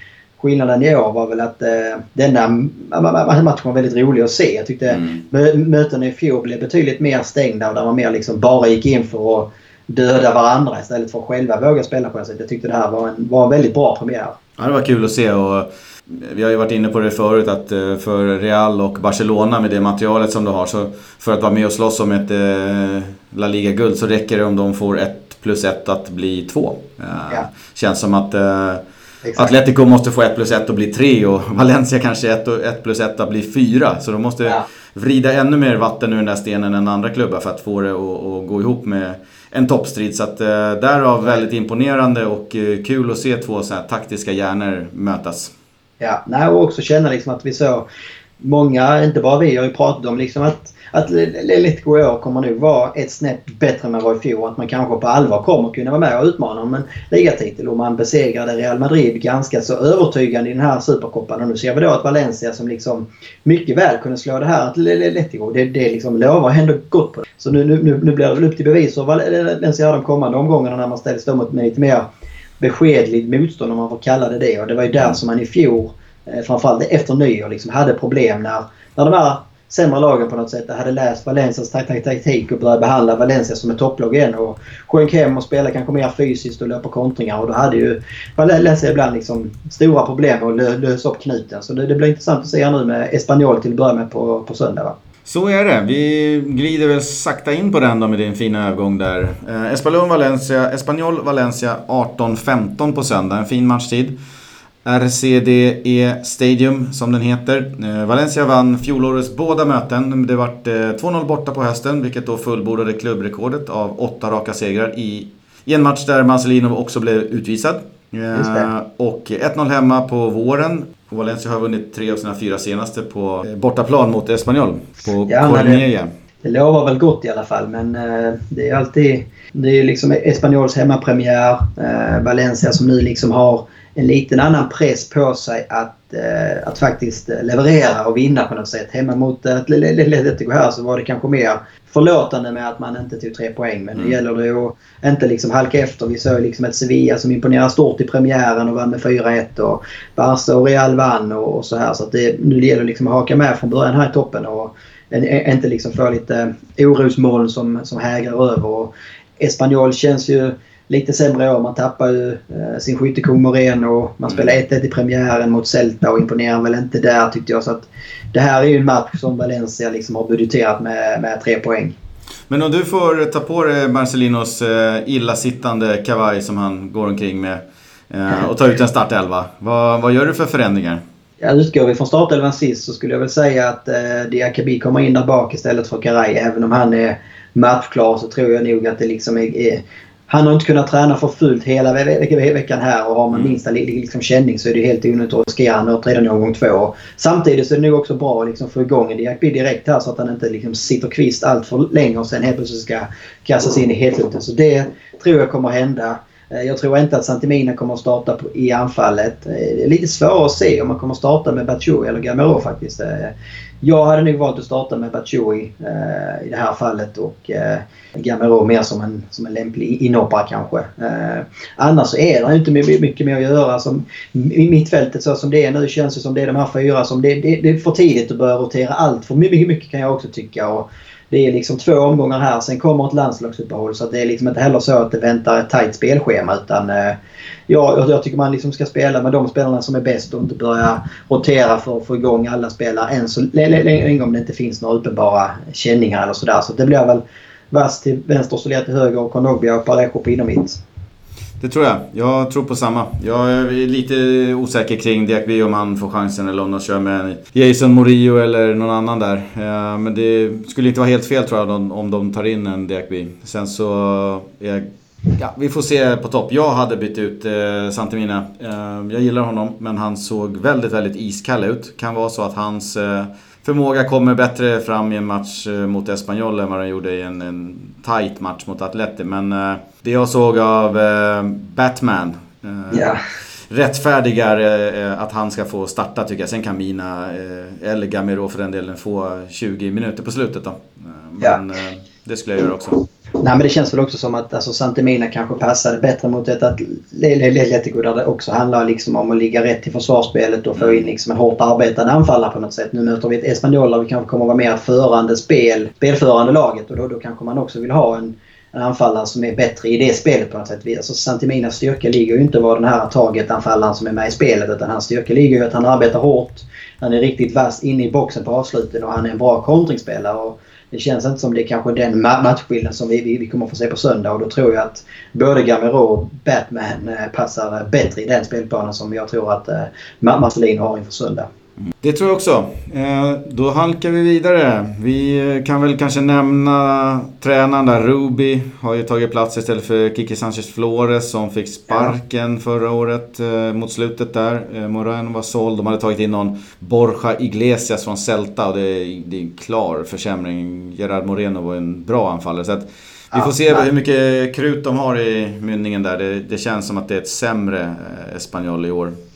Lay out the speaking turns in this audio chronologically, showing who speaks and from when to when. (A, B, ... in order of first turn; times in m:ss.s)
0:00.4-0:14.4 A
0:04.9-0:05.2 B
0:14.6-0:28.8 B
0:29.2-0:29.5 A
0:29.3-0:45.5 B
0:46.0-0:47.8 A
0:48.4-1:12.0 A
1:12.6-1:34.9 A
1:35.2-1:44.1 B
1:44.8-2:06.1 B
1:58.3-1:58.7 A
2:05.3-2:05.8 A
2:06.4-2:51.9 A
2:44.3-2:44.6 B
2:52.5-3:01.0 B
3:01.4-3:57.2 A
3:57.7-4:10.8 A
4:11.6-4:43.1 B
4:42.9-4:43.2 A
4:43.7-4:53.0 B
4:53.4-5:31.5 A
5:00.8-5:01.0 B
5:31.9-5:59.1 B
5:53.3-5:53.8 A